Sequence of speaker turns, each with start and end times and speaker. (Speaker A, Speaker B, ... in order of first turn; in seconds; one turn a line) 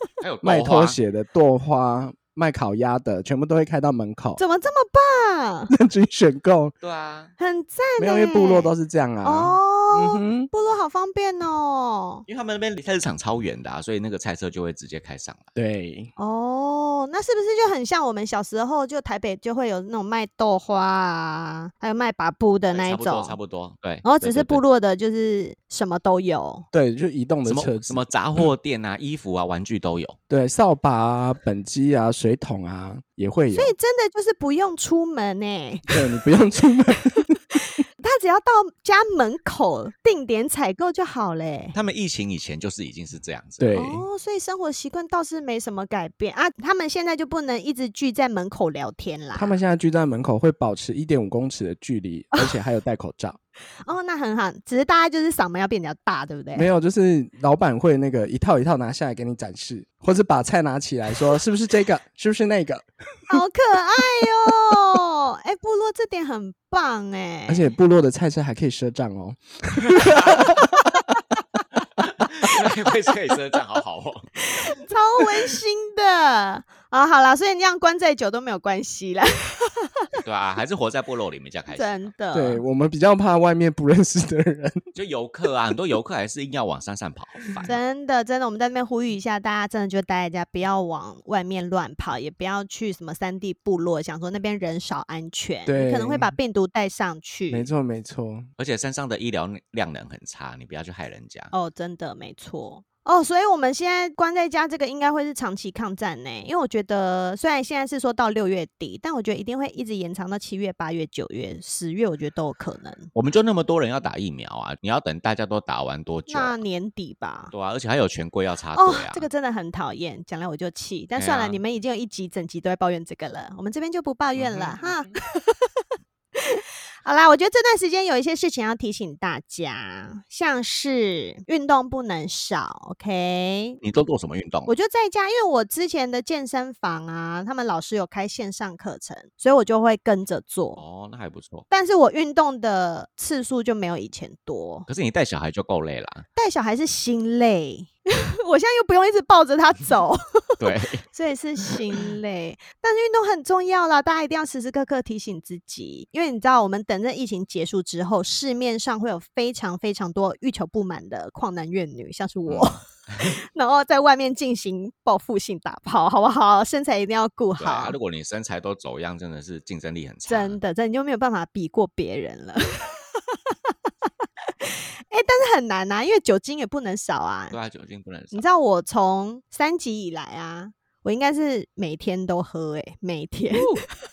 Speaker A: 0.2-1.0
Speaker B: 0.4-4.4
Speaker C: 4.4-5.7
Speaker B: 5.7-6.7
Speaker A: 6.8-7.3
Speaker C: 7.4-8.7
Speaker B: 8.0-10.5
Speaker C: 9.2-12.2
Speaker A: 12.3-15.5
Speaker B: 15.5-16.1
Speaker C: 16.2-23.4
Speaker A: 22.7-24.6
Speaker C: 24.0-26.6
Speaker B: 26.7-28.0
Speaker A: 27.4-30.2
Speaker B: 30.3-33.7
Speaker C: 33.5-36.0
Speaker B: 35.9-37.4
Speaker C: 37.5-41.8
Speaker A: 41.7-43.7
Speaker B: 43.6-44.0
Speaker C: 43.7-49.6
Speaker B: 49.4-53.4
Speaker C: 53.8-56.7
Speaker B: 56.5-63.4
Speaker C: 63.3-67.7
Speaker B: 67.5-71.1
Speaker A: 70.0-70.5
Speaker A: 72.0-74.3
Speaker C: 74.4-80.1
Speaker A: 80.2-82.1
Speaker C: 81.7-82.6
Speaker B: 82.3-84.9
Speaker A: 84.9-87.8
Speaker C: 87.6-97.7
Speaker B: 95.7-96.3
Speaker B: 97.5-98.5
Speaker A: 98.6-101.5
Speaker C: 101.5-113.1
Speaker A: 113.1-116.6
Speaker C: 116.3-117.5
Speaker A: 117.5-119.3
Speaker C: 118.7-125.8
Speaker A: 121.2-121.6
Speaker A: 124.4-124.8
Speaker C: 126.3-133.8
Speaker A: 133.8-134.7
Speaker C: 134.7-140.8
Speaker A: 140.8-141.7
Speaker C: 141.7-144.9
Speaker A: 144.9-146.2
Speaker C: 146.3-167.9
Speaker A: 150.6-151.0
Speaker A: 151.7-152.0
Speaker A: 162.5-163.4
Speaker A: 167.6-170.6
Speaker C: 170.3-173.7
Speaker C: 174.6-177.6
Speaker A: 177.5-178.4
Speaker C: 178.3-183.7
Speaker A: 183.5-183.8